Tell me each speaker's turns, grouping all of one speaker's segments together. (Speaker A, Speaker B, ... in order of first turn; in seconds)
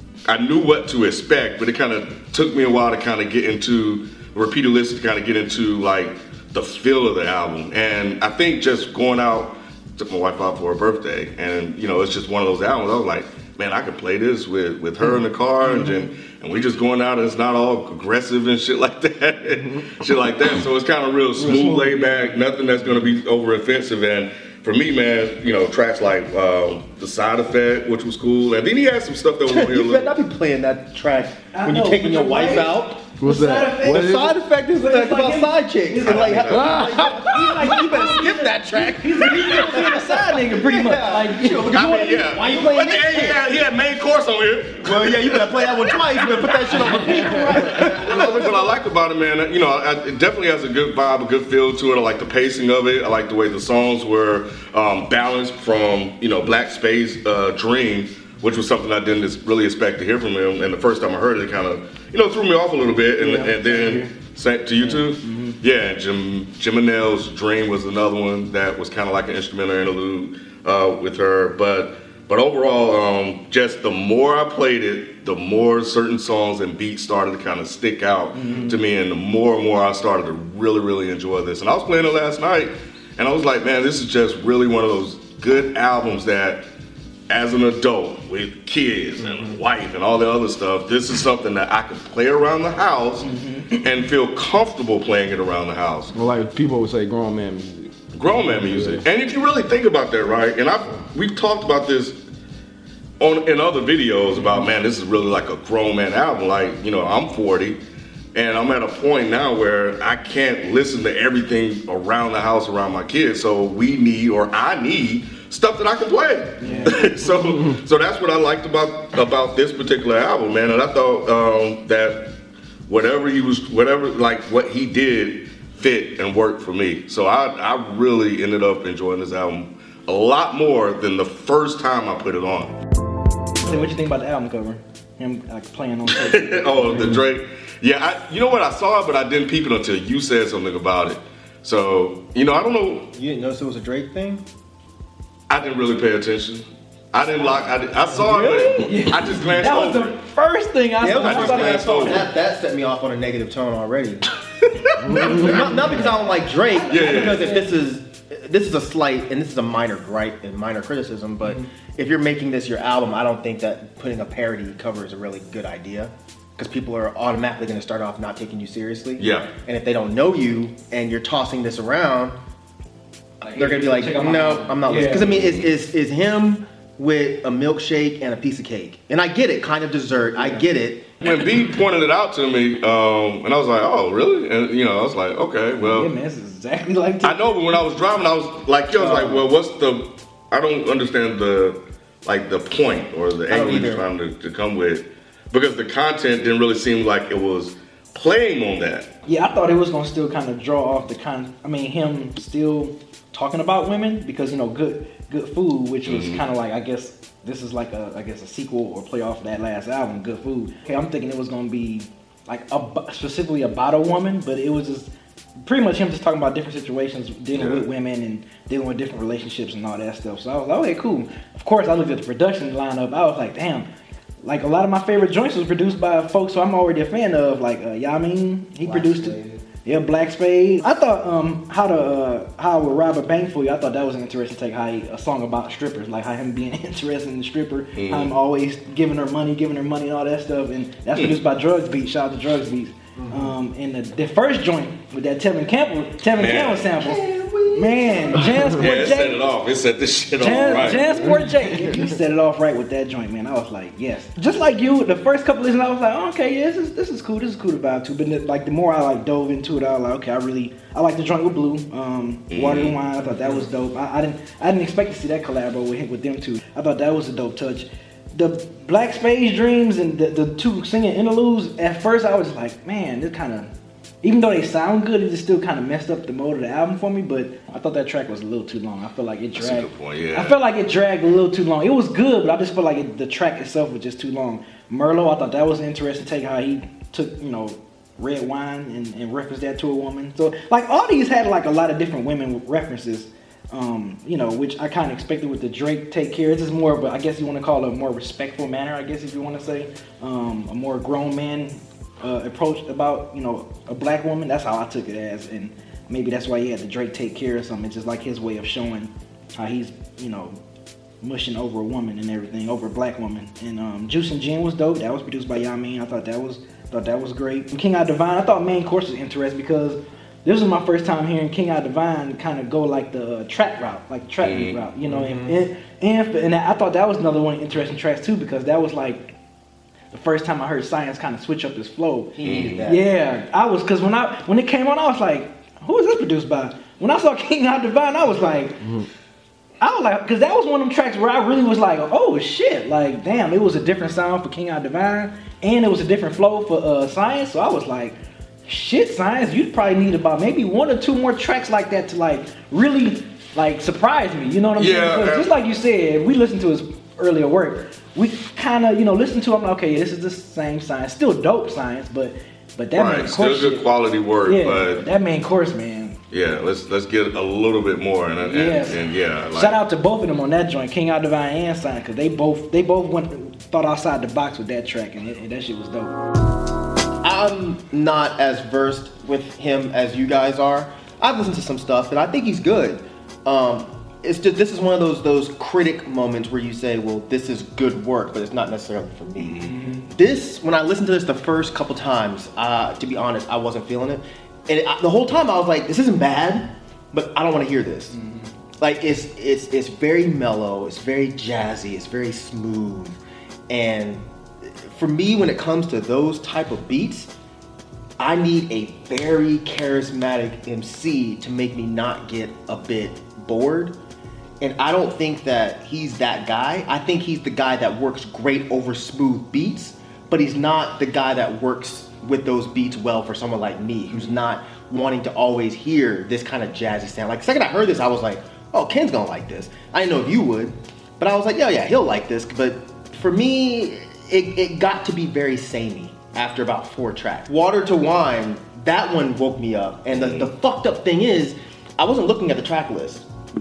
Speaker A: 0.3-30.1, 36.0-37.1, 41.7-86.7, 87.3-96.1, 98.1-102.2, 103.2-107.8, 108.3-122.3, 122.9-132.8, 136.1-143.1, 145.5-150.1, 151.1-152.3, 154.9-155.6, 156.9-157.5, 169.2-169.5, 175.2-175.7, 181.2-186.1, 187.2-199.1, 206.1-206.4, 217.5-217.8, 237.9-238.3, 241.1-241.4, 246.3-246.9, 248.4-251.0, 262.5-263.0, 279.5-280.6, 324.4-324.8, 332.4-332.9, 354.8-355.5, 362.9-365.0, 366.3-369.8, 440.1-440.5
Speaker B: 15.6-16.1, 21.4-22.4, 31.5-42.7, 46.8-48.4, 63.2-64.1, 64.8-65.6, 78.3-78.8, 93.2-93.9, 116.6-116.9, 133.6-137.2, 148.2-152.3, 155.1-156.1, 156.7-157.8, 173.4-175.3, 180.3-180.6, 185.8-187.4, 188.9-189.4, 199.2-223.9, 224.4-249.5, 250.4-273.7, 274.2-310.6, 311.2-329.3, 330.1-338.8, 339.8-363.9, 364.4-366.2, 368.4-369.0, 369.5-376.1, 389.6-390.1, 398.1-398.5
Speaker C: 29.4-33.0, 34.0-43.5, 44.8-48.7, 143.1-144.4, 151.0-154.2, 155.2-172.3, 173.5-181.1, 193.5-194.1, 243.2-243.5, 246.9-248.4, 325.1-325.6, 332.3-333.1, 377.2-398.1, 398.8-407.3, 408.2-413.9, 414.6-443.2
Speaker D: 33.2-34.3, 96.1-99.0, 155.1-155.3, 251.2-252.1